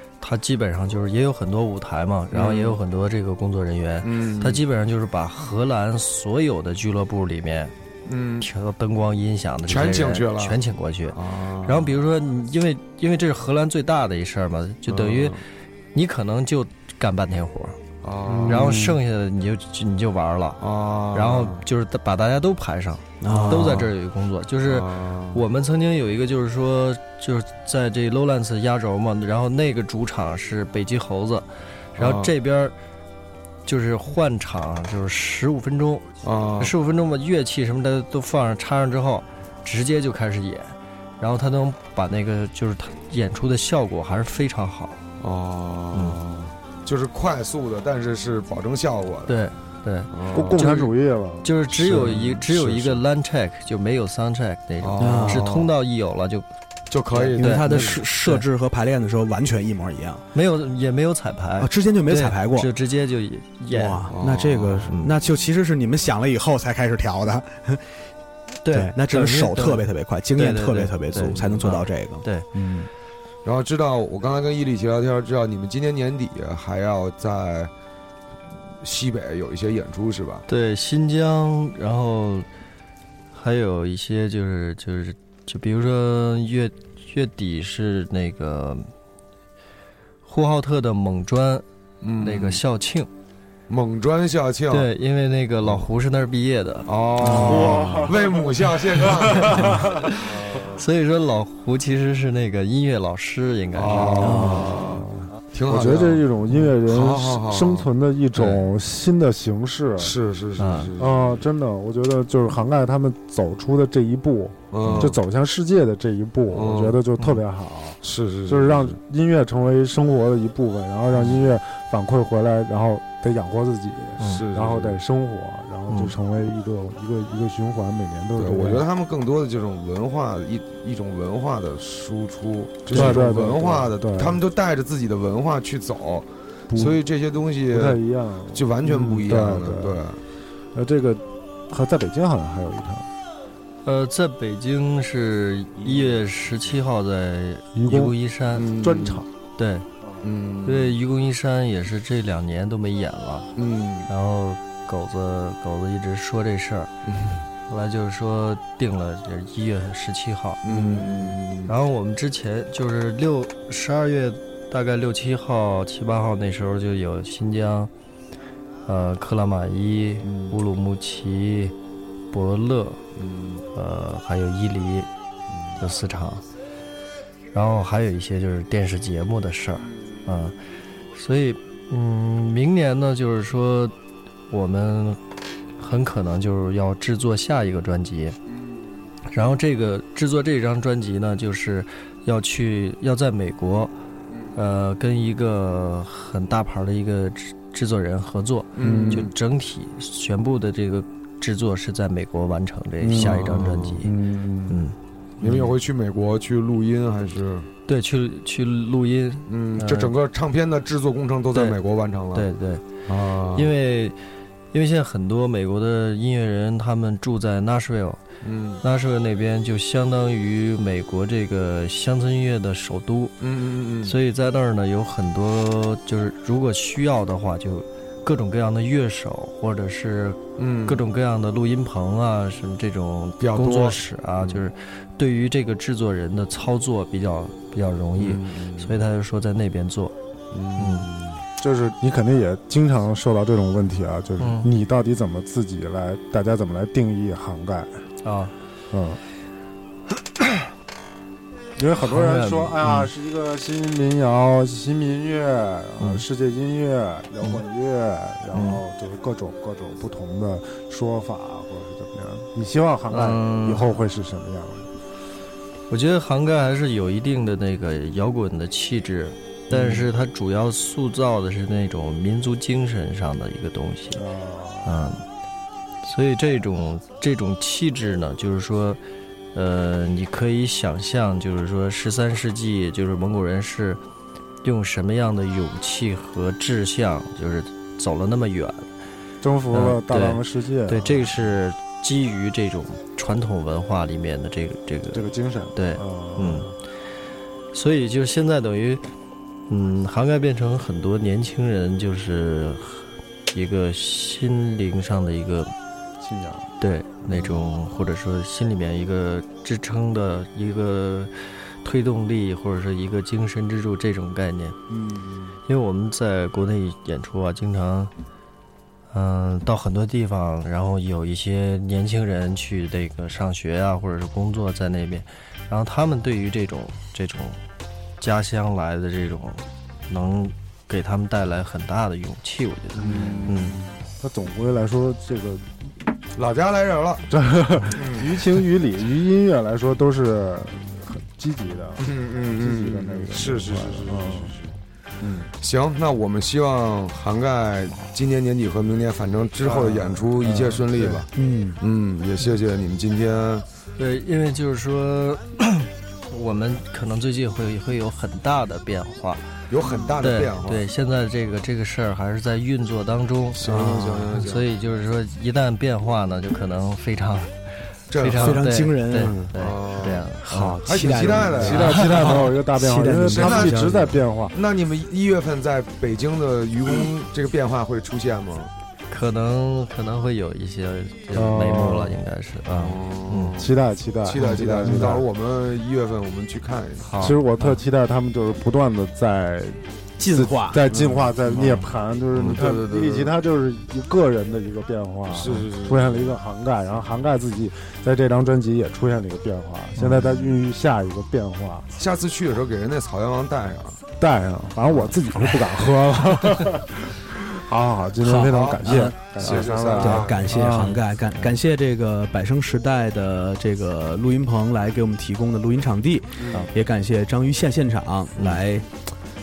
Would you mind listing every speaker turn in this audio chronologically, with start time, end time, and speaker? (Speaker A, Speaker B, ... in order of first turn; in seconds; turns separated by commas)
Speaker A: 0.2-7.7, Speaker B: 2.3-2.8, Speaker B: 4.0-4.6, Speaker B: 8.1-8.5, Speaker A: 8.4-15.4, Speaker B: 9.7-10.6, Speaker B: 11.1-12.0, Speaker B: 14.9-15.4, Speaker A: 15.9-17.8, Speaker B: 18.0-18.8, Speaker C: 18.2-19.0, Speaker A: 18.5-20.6, Speaker B: 20.6-21.6, Speaker A: 21.1-32.8, Speaker D: 23.2-23.9, Speaker B: 23.3-23.9, Speaker B: 24.6-25.4, Speaker B: 32.0-32.3, Speaker A: 33.6-36.0, Speaker B: 36.2-36.8, Speaker A: 36.6-45.0, Speaker B: 45.2-49.4, Speaker A: 45.9-46.2, Speaker A: 49.3-56.5, Speaker B: 50.1-50.6, Speaker C: 50.3-52.1, Speaker B: 51.7-53.0, Speaker B: 54.8-55.7, Speaker D: 55.0-55.5, Speaker B: 56.9-58.0, Speaker A: 57.1-58.5, Speaker D: 57.2-60.2, Speaker A: 60.3-64.2, Speaker D: 61.6-62.7, Speaker D: 63.7-68.1, Speaker B: 64.1-64.9, Speaker A: 64.9-65.2, Speaker A: 68.6-72.5, Speaker D: 68.7-72.9, Speaker B: 73.4-77.7, Speaker B: 78.8-80.5, Speaker A: 80.5-82.5, Speaker A: 83.3-88.9, Speaker A: 90.2-91.6, Speaker B: 92.0-92.6, Speaker A: 92.2-93.1, Speaker B: 93.7-94.9, Speaker A: 94.7-96.9, Speaker B: 96.9-100.8, Speaker D: 97.2-97.7, Speaker C: 97.2-100.2, Speaker A: 99.3-104.7, Speaker B: 103.7-108.6, Speaker D: 104.2-104.8, Speaker C: 104.3-110.2, Speaker B: 110.0-111.5, Speaker A: 110.6-110.9, Speaker C: 111.0-128.9, Speaker B: 114.7-115.2, Speaker A: 114.8-115.1, Speaker B: 116.5-117.0, Speaker B: 118.0-119.0, Speaker B: 121.1-121.5, Speaker A: 124.2-124.4, Speaker B: 124.2-125.0, Speaker A: 125.9-126.1, Speaker B: 128.4-138.0, Speaker A: 132.9-133.2, Speaker C: 132.9-134.4, Speaker C: 136.7-137.0, Speaker C: 137.7-140.1, Speaker B: 138.5-140.2, Speaker C: 140.7-143.1, Speaker A: 143.8-148.7, Speaker B: 145.8-146.2, Speaker C: 147.7-149.3, Speaker B: 148.5-149.2, Speaker A: 149.6-149.9, Speaker B: 150.2-151.0, Speaker A: 150.7-153.5, Speaker B: 153.6-154.1, Speaker A: 154.1-156.9, Speaker B: 157.1-157.4, Speaker A: 157.7-167.9, Speaker B: 160.6-161.7, Speaker A: 168.9-171.7, Speaker B: 170.2-170.6, Speaker A: 172.3-173.0, Speaker B: 173.2-173.6, Speaker A: 173.7-175.1, Speaker B: 175.5-175.8, Speaker A: 175.8-176.4, Speaker A: 177.5-180.6, Speaker B: 179.8-180.3, Speaker A: 181.2-183.9, Speaker A: 184.5-185.2, Speaker A: 185.8-188.4, Speaker B: 188.5-189.2, Speaker A: 189.3-193.9, Speaker B: 194.3-194.6, Speaker A: 194.6-204.1, Speaker B: 198.8-199.3, Speaker C: 198.8-199.3, Speaker C: 203.0-204.8, Speaker B: 203.1-204.0, Speaker A: 204.7-205.0, Speaker B: 205.4-207.7, Speaker A: 207.9-210.1, Speaker B: 209.5-212.5, Speaker A: 212.3-212.8, Speaker B: 213.1-213.7, Speaker A: 213.5-214.2, Speaker A: 214.7-218.2, Speaker B: 218.4-218.8, Speaker A: 218.8-223.4, Speaker B: 223.4-224.2, Speaker A: 224.0-240.2, Speaker B: 230.6-231.0, Speaker B: 233.4-234.6, Speaker B: 238.2-239.0, Speaker B: 240.5-241.4, Speaker A: 240.8-241.1, Speaker C: 241.6-248.0, Speaker A: 244.4-244.7, Speaker A: 248.2-248.5, Speaker C: 248.9-249.2, Speaker C: 251.8-264.9, Speaker A: 252.0-253.1, Speaker A: 256.0-256.2, Speaker A: 258.5-258.8, Speaker A: 263.1-263.9, Speaker A: 265.9-274.2, Speaker D: 269.7-270.1, Speaker C: 274.1-275.2, Speaker A: 274.9-275.2, Speaker A: 276.0-279.0, Speaker A: 279.5-284.0, Speaker A: 284.6-288.9, Speaker C: 289.4-291.3, Speaker A: 289.7-296.7, Speaker C: 295.1-296.8, Speaker A: 297.7-299.1, Speaker A: 299.7-305.7, Speaker C: 306.2-306.7, Speaker A: 306.8-314.8, Speaker B: 307.3-307.6, Speaker C: 314.9-315.6, Speaker A: 315.7-318.1, Speaker A: 319.1-327.6, Speaker A: 328.2-333.8, Speaker B: 333.0-333.8, Speaker C: 333.0-335.7, Speaker B: 336.4-337.3, Speaker C: 337.3-344.6, Speaker B: 337.9-338.4, Speaker B: 342.0-353.6, Speaker C: 349.6-351.2, Speaker D: 351.3-351.8, Speaker A: 354.0-359.4, Speaker B: 359.7-360.9, Speaker A: 360.2-363.7, Speaker B: 363.5-364.7, Speaker D: 363.6-364.4, Speaker A: 364.3-372.4, Speaker B: 368.1-368.7, Speaker D: 368.4-369.5, Speaker B: 369.5-372.6, Speaker D: 370.5-372.1, Speaker C: 371.2-374.6, Speaker D: 372.7-374.2, Speaker B: 373.2-378.7, Speaker A: 379.1-383.6, Speaker C: 381.3-382.2, Speaker B: 382.7-383.7, Speaker C: 383.6-385.3, Speaker B: 384.2-387.1, Speaker A: 384.3-385.1, Speaker A: 387.0-387.8, Speaker C: 387.2-401.9, Speaker D: 390.2-391.2, Speaker B: 391.5-393.3, Speaker A: 391.5-391.8, Speaker B: 395.3-396.4, Speaker A: 400.0-400.3, Speaker B: 400.1-400.6, Speaker B: 402.0-404.0, Speaker C: 404.2-411.0, Speaker B: 404.9-405.2, Speaker D: 408.2-419.0, Speaker B: 408.5-410.4, Speaker A: 410.6-411.5, Speaker B: 416.4-416.7, Speaker A: 418.4-418.6